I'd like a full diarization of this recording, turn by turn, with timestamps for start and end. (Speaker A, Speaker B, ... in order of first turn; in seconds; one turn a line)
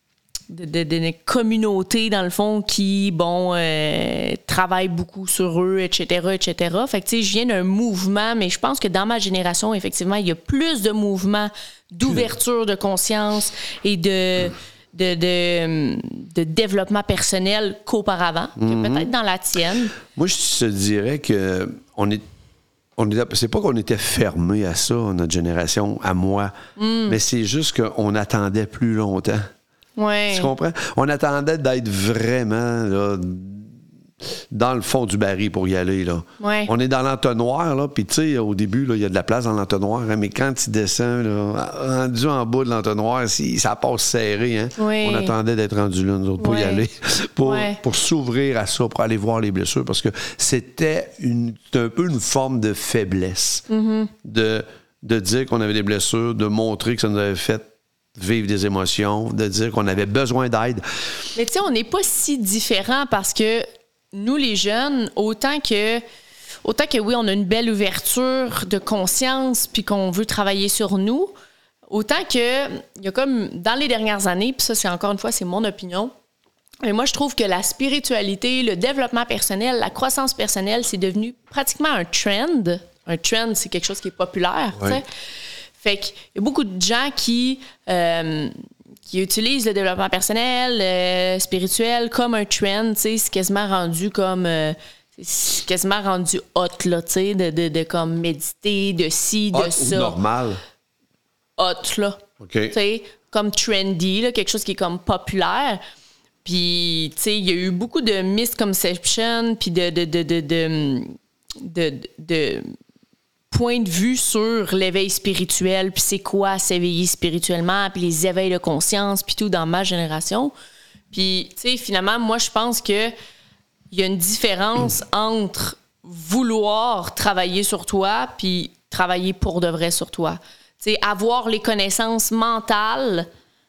Speaker A: 0.5-19.9
Speaker B: 18.6-19.1
Speaker B: 20.1-22.2
Speaker B: 23.0-26.5
Speaker A: 26.8-27.2
Speaker B: 27.1-29.4
Speaker A: 30.0-30.5
Speaker B: 30.3-33.7
Speaker B: 34.5-53.7
Speaker A: 36.4-36.7
Speaker A: 44.8-45.4
Speaker A: 46.4-46.9
Speaker A: 47.4-47.8
Speaker A: 53.7-54.1
Speaker B: 54.2-60.8
Speaker A: 61.4-66.0
Speaker A: 66.7-71.3
Speaker A: 71.9-76.1
Speaker A: 76.8-85.1
Speaker B: 84.8-85.0
Speaker A: 85.8-88.5
Speaker A: 89.1-100.2
Speaker B: 99.5-100.6
Speaker A: 101.6-105.8
Speaker B: 102.4-102.8
Speaker A: 106.4-112.7
Speaker A: 113.5-120.5
Speaker A: 121.1-123.1
Speaker A: 123.9-133.3